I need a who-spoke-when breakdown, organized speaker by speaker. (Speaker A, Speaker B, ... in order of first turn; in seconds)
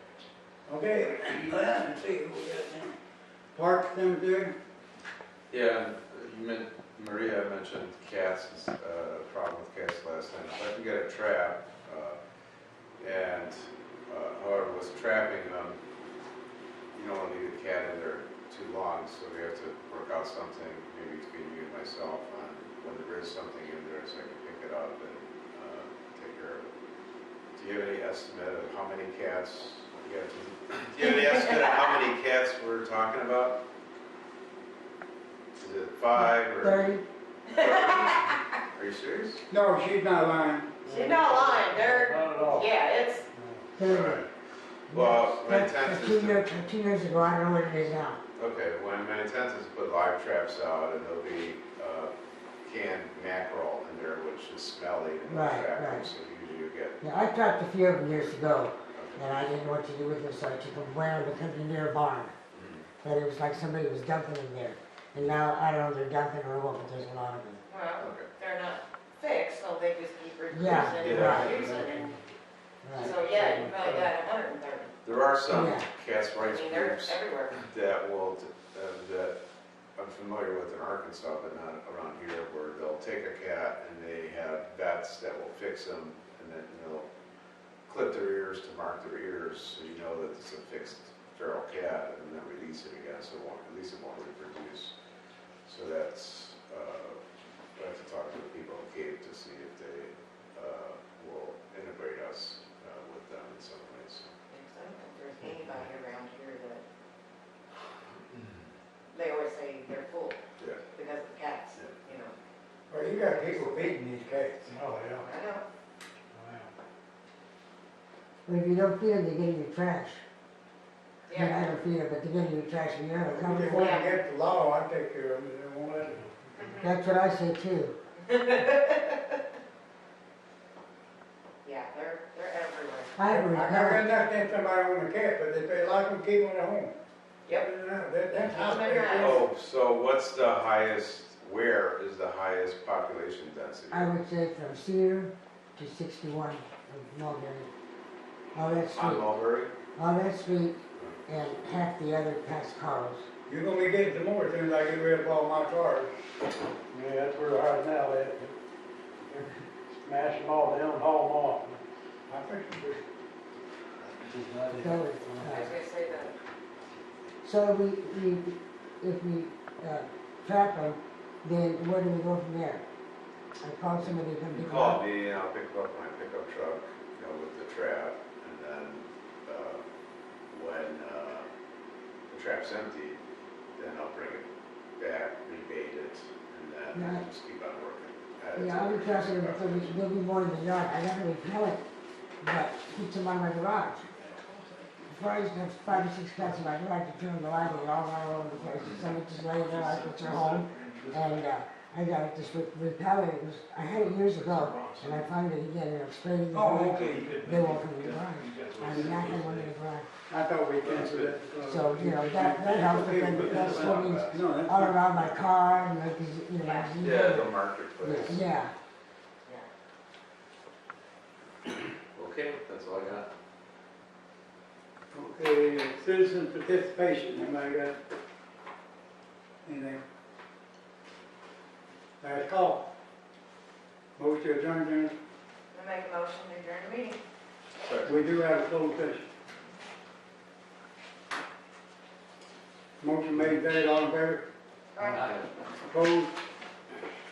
Speaker A: 0.7-3.0, 3.5-4.6, 39.5-40.9, 112.9-114.8, 123.3-126.2, 133.3-136.9, 137.6-139.4, 153.5-156.1, 162.3-163.0, 206.5-207.4, 210.3-215.0, 225.1-228.0, 229.7-230.0, 232.2-232.9, 234.2-235.2, 238.0-239.2, 243.0-244.4, 245.9-246.3
Speaker B: 5.5-12.2, 13.0-15.8, 16.9-26.7, 27.6-33.6, 35.6-36.9, 37.5-39.4, 43.8-44.3, 44.9-46.5, 48.4-52.1, 52.6-57.0, 58.9-59.2, 62.5-62.9, 68.0-68.3, 71.0-71.8, 75.0-79.4, 80.0-87.1, 87.9-94.9, 95.7-97.2, 97.8-104.3, 108.3-108.7, 139.1-144.2, 148.9-149.7, 174.5-179.8, 180.5-181.5, 182.3-183.2, 183.8-184.4, 185.0-190.0, 210.9-211.3, 217.0-218.4, 222.1-223.3, 237.8-238.1
Speaker C: 36.1-37.0, 43.8-44.3, 44.9-48.2, 55.3-56.1, 57.0-62.3, 63.0-67.6, 70.5-71.6, 72.8-73.2, 75.5-75.9, 118.5-120.2, 121.3-124.0, 126.8-128.0, 133.2-134.1, 143.9-147.7, 148.6-149.3, 149.9-153.3, 164.7-165.8, 167.4-172.8, 173.6-175.0, 186.9-187.2, 188.5-191.8, 192.4-194.1, 195.1-210.1, 211.6-218.7
Speaker D: 37.6-38.4, 40.9-43.2, 67.7-72.2, 73.0-74.9, 76.4-77.6, 104.5-106.8, 109.1-110.4, 110.9-112.3, 115.2-115.7, 121.3-121.8, 123.7-124.2, 126.6-126.9, 128.2-129.3, 131.6-133.2, 138.3-139.4, 165.4-166.4, 216.6-217.0, 235.7-237.2, 244.9-245.3
Speaker E: 40.9-42.8, 43.3-43.7, 71.5-72.0, 114.7-115.2, 116.3-116.7, 156.9-158.5, 160.0-161.8, 164.2-165.7, 194.2-195.1, 196.0-196.7, 197.6-201.5, 204.0-205.3, 207.1-209.7, 212.9-214.6